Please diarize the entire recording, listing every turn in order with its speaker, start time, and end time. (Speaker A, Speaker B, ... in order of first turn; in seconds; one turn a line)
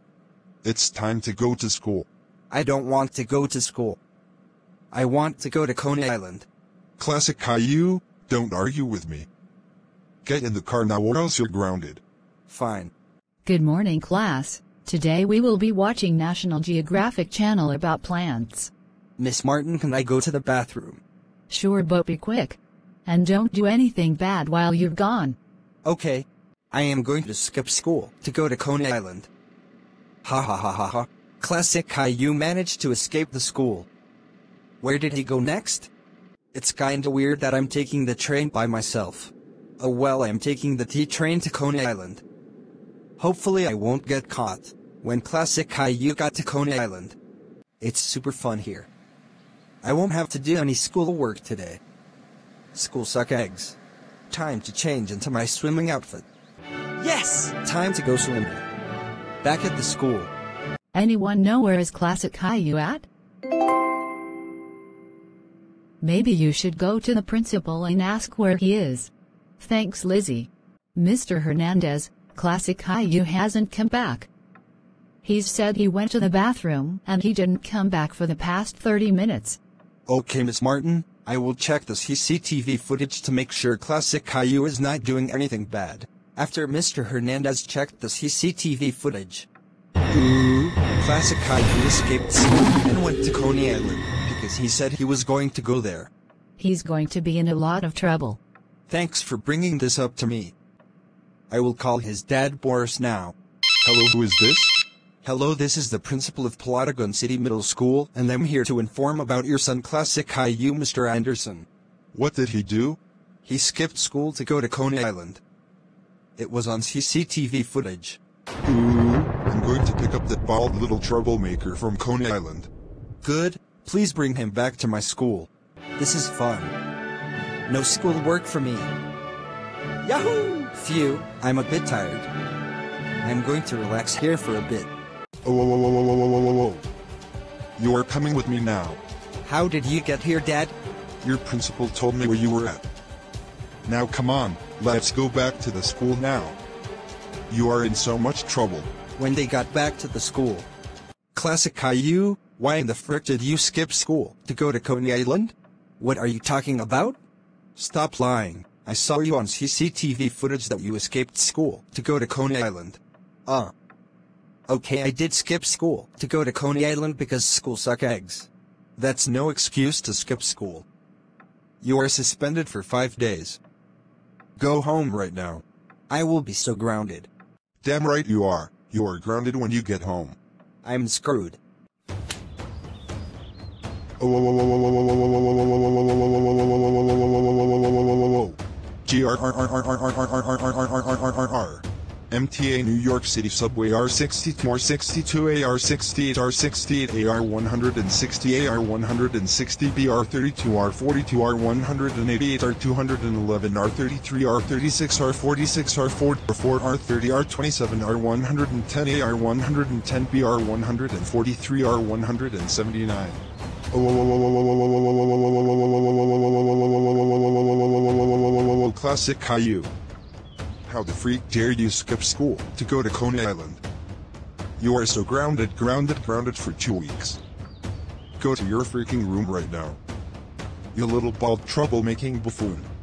Speaker A: 0.6-2.1
Speaker B: 2.5-4.0
Speaker B: 4.9-6.5
Speaker A: 7.0-9.3
Speaker A: 10.2-12.0
Speaker B: 12.5-12.9
Speaker C: 13.4-18.7
Speaker B: 19.2-21.0
Speaker C: 21.5-25.4
Speaker B: 25.9-29.3
Speaker B: 30.2-33.9
Speaker B: 34.8-35.9
Speaker B: 36.5-42.2
Speaker B: 43.2-47.2
Speaker B: 47.8-48.9
Speaker B: 49.8-51.8
Speaker B: 52.7-53.8
Speaker B: 54.3-56.3
Speaker B: 57.0-58.6
Speaker B: 59.4-60.3
Speaker C: 60.9-63.1
Speaker C: 66.0-74.3
Speaker C: 75.2-79.6
Speaker B: 80.1-89.5
Speaker B: 90.1-96.1
Speaker C: 96.6-98.4
Speaker B: 98.9-100.5
Speaker B: 101.5-103.3
Speaker A: 103.8-104.8
Speaker B: 105.2-111.7
Speaker A: 112.1-113.0
Speaker B: 113.4-115.4
Speaker B: 116.4-118.2
Speaker A: 118.6-122.7
Speaker B: 123.2-126.7
Speaker B: 127.7-128.9
Speaker B: 130.0-132.3
Speaker B: 133.2-134.9
Speaker A: 135.4-136.9
Speaker A: 137.8-139.0
Speaker B: 139.4-140.8
Speaker A: 141.2-142.8
Speaker A: 143.9-146.6
Speaker A: 147.5-148.9
Speaker B: 149.2-150.7
Speaker B: 151.3-157.2
Speaker B: 157.8-163.7
Speaker B: 164.7-170.9
Speaker B: 171.8-173.6
Speaker B: 174.6-175.4
Speaker B: 176.1-177.3
Speaker A: 177.8-180.4
Speaker B: 180.8-181.6
Speaker A: 184.2-184.6
Speaker A: 188.1-213.4
Speaker A: 213.9-214.3
Speaker A: 218.6-219.9
Speaker A: 220.9-223.8
Speaker A: 224.8-227.4
Speaker A: 228.4-230.0
Speaker A: 230.9-232.9